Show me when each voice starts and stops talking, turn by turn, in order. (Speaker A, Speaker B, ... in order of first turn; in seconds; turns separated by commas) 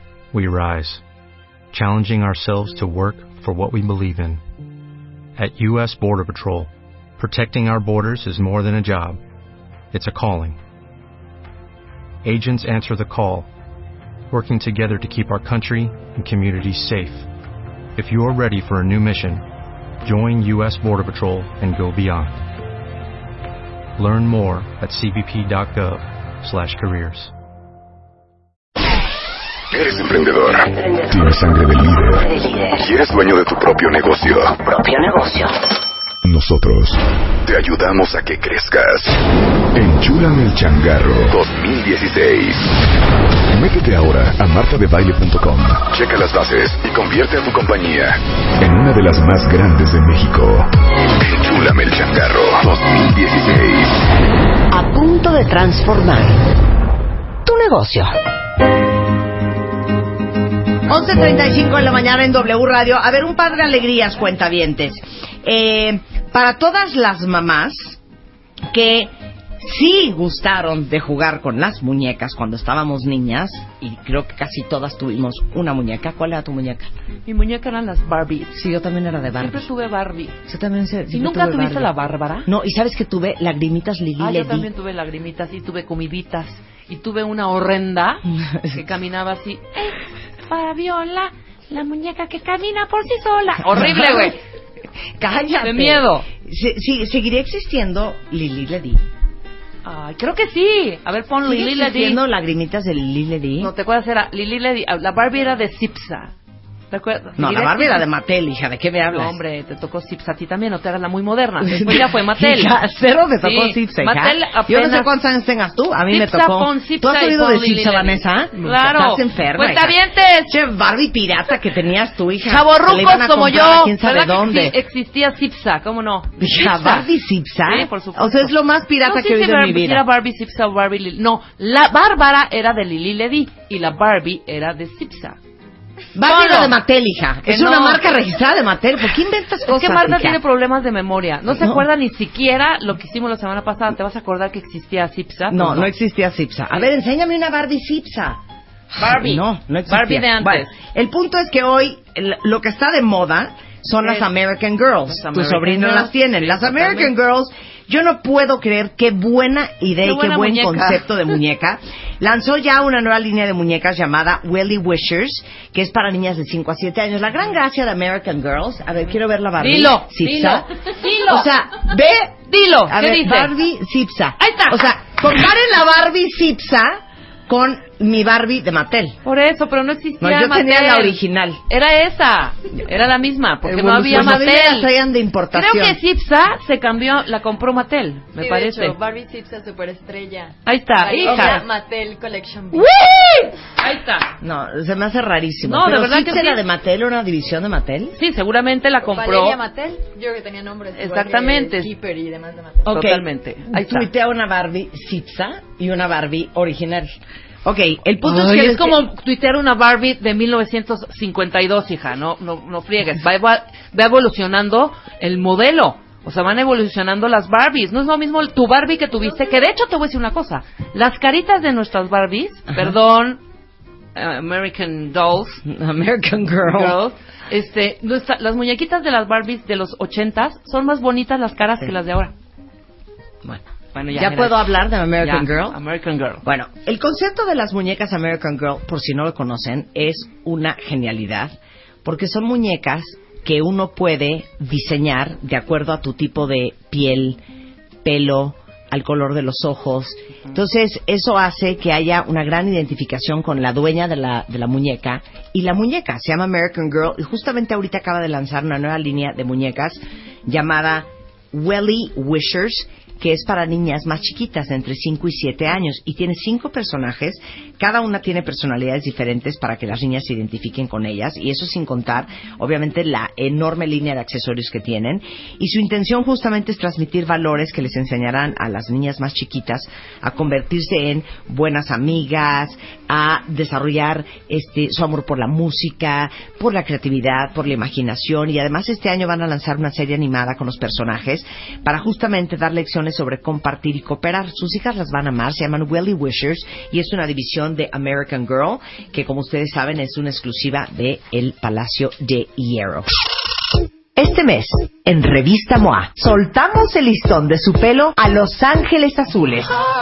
Speaker A: 0.3-1.0, Speaker A: 1.7-4.4, Speaker A: 5.4-9.2, Speaker A: 9.9-10.6, Speaker A: 12.2-13.5, Speaker A: 14.3-17.3, Speaker A: 18.0-19.4, Speaker A: 20.0-22.4, Speaker A: 24.0-27.3, Speaker B: 29.7-34.6, Speaker C: 31.1-31.5, Speaker C: 32.1-32.9, Speaker C: 34.6-35.5, Speaker B: 36.2-39.1, Speaker B: 39.8-42.7, Speaker B: 43.5-50.7, Speaker B: 51.2-54.0, Speaker D: 54.7-56.4, Speaker D: 57.5-58.1, Speaker D: 60.9-68.0, Speaker D: 68.7-76.9, Speaker E: 77.3-78.6, Speaker D: 78.5-79.7, Speaker E: 79.4-80.3, Speaker D: 80.5-81.9, Speaker E: 81.1-82.5, Speaker D: 82.5-84.7, Speaker E: 84.2-94.4, Speaker D: 88.3-88.8, Speaker D: 93.8-94.3, Speaker D: 95.2-99.0, Speaker E: 95.6-96.3, Speaker E: 99.8-102.2, Speaker D: 101.4-103.7, Speaker E: 103.6-106.3, Speaker E: 106.9-108.0, Speaker D: 107.4-109.4, Speaker E: 109.1-112.8, Speaker D: 111.6-124.8, Speaker E: 113.4-115.1, Speaker E: 116.1-120.5, Speaker E: 122.5-127.1, Speaker D: 126.4-130.0, Speaker E: 127.7-128.5, Speaker E: 129.1-135.4, Speaker D: 136.2-140.4, Speaker E: 136.2-136.8, Speaker E: 137.4-138.2, Speaker E: 139.7-145.9, Speaker D: 141.6-141.8, Speaker D: 145.5-148.4, Speaker E: 149.0-150.7, Speaker D: 149.1-170.7, Speaker E: 154.0-154.3, Speaker E: 155.1-157.1, Speaker E: 160.0-161.0, Speaker E: 169.6-171.5, Speaker D: 171.3-179.2, Speaker E: 172.5-173.5, Speaker E: 174.4-174.9, Speaker E: 179.2-184.9, Speaker D: 180.2-181.6, Speaker D: 183.7-186.0, Speaker E: 185.5-189.0, Speaker F: 188.4-192.9, Speaker E: 190.7-191.7, Speaker D: 191.3-191.6, Speaker E: 192.8-194.3, Speaker D: 194.4-198.2, Speaker E: 195.6-196.6, Speaker E: 198.1-199.6, Speaker F: 199.1-202.9, Speaker E: 200.9-201.9, Speaker D: 202.8-209.0, Speaker E: 202.9-204.1, Speaker E: 208.2-223.4, Speaker E: 224.2-225.6, Speaker D: 225.6-227.0, Speaker E: 226.6-232.3, Speaker D: 233.4-235.8, Speaker E: 233.9-236.4, Speaker D: 236.4-247.4, Speaker D: 248.1-303.1, Speaker D: 304.2-309.7